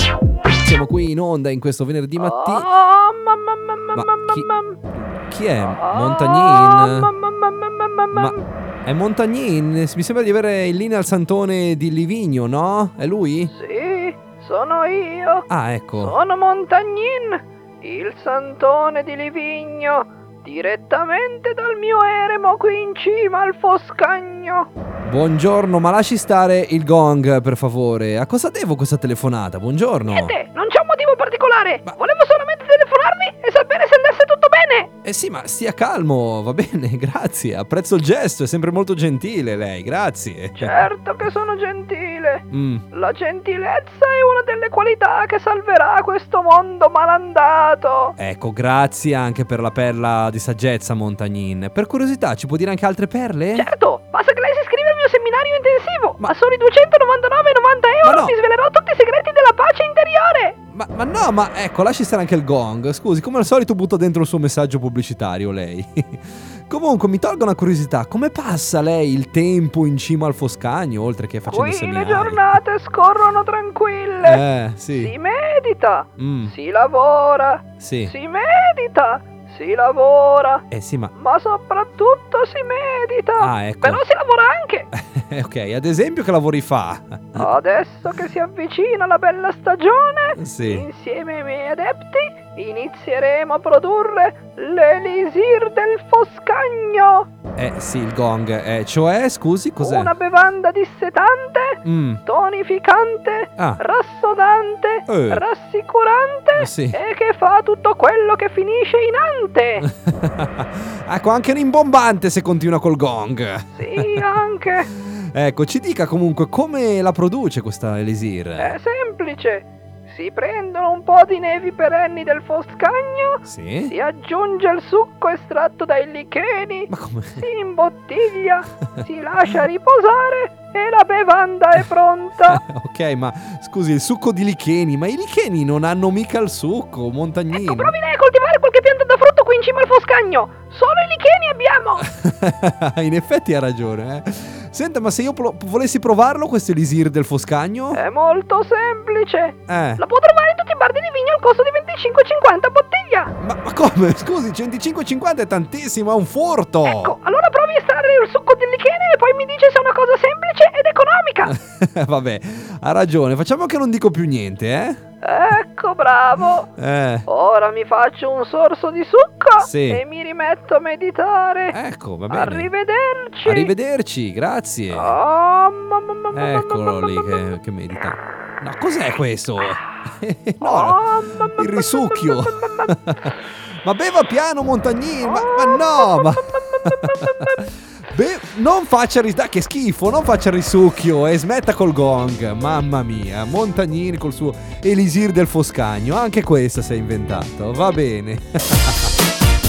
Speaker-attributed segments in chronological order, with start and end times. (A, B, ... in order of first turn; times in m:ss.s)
0:00.6-0:02.7 A
0:02.2-0:04.8 B
0:04.0-0:07.1 A
0:05.6-0:08.5 B
0:08.1-0:13.5 A
0:13.5-0:24.7 B
0:15.5-0:16.2 A
0:25.0-0:30.4 A
0:30.1-0:34.9 B
0:35.0-0:40.8 A
0:40.6-0:48.2 B
0:42.5-0:42.8 A
0:48.2-0:53.7 A
0:53.5-1:00.6 B
0:58.0-0:58.4 A
1:00.7-1:12.6 A
1:11.5-1:24.9 B
1:14.2-1:15.1 A
1:16.2-1:16.6 A
1:17.8-1:18.1 A
1:20.7-1:21.1 A
1:23.4-1:24.0 A
1:24.9-1:27.5 A
1:27.4-1:37.3 B
1:30.4-1:30.9 A
1:37.6-1:40.1 A
1:39.8-1:49.9 B
1:41.8-1:42.2 A
1:45.1-1:45.4 A
1:46.6-1:47.0 A
1:49.8-1:54.3 A
1:53.7-1:54.9 B
1:54.8-1:58.8 A
1:58.6-2:12.6 B
2:03.4-2:03.9 A
2:06.9-2:07.5 A
2:09.0-2:09.6 A
2:12.5-2:17.9 A
2:17.5-2:22.1 B
2:22.0-2:28.0 A
2:27.9-2:33.3 B
2:29.7-2:30.0 A
2:33.4-2:37.2 A
2:36.8-2:41.6 B
2:41.4-2:45.0 A
2:45.2-2:46.7 B
2:46.8-2:47.3 A
2:47.3-2:51.8 B
2:49.6-2:50.0 A
2:51.7-2:52.7 A
2:52.3-2:53.7 B
2:53.4-2:55.2 A
2:54.9-2:57.4 B
2:56.3-3:19.1 A
3:00.6-3:03.0 B
3:05.2-3:07.6 B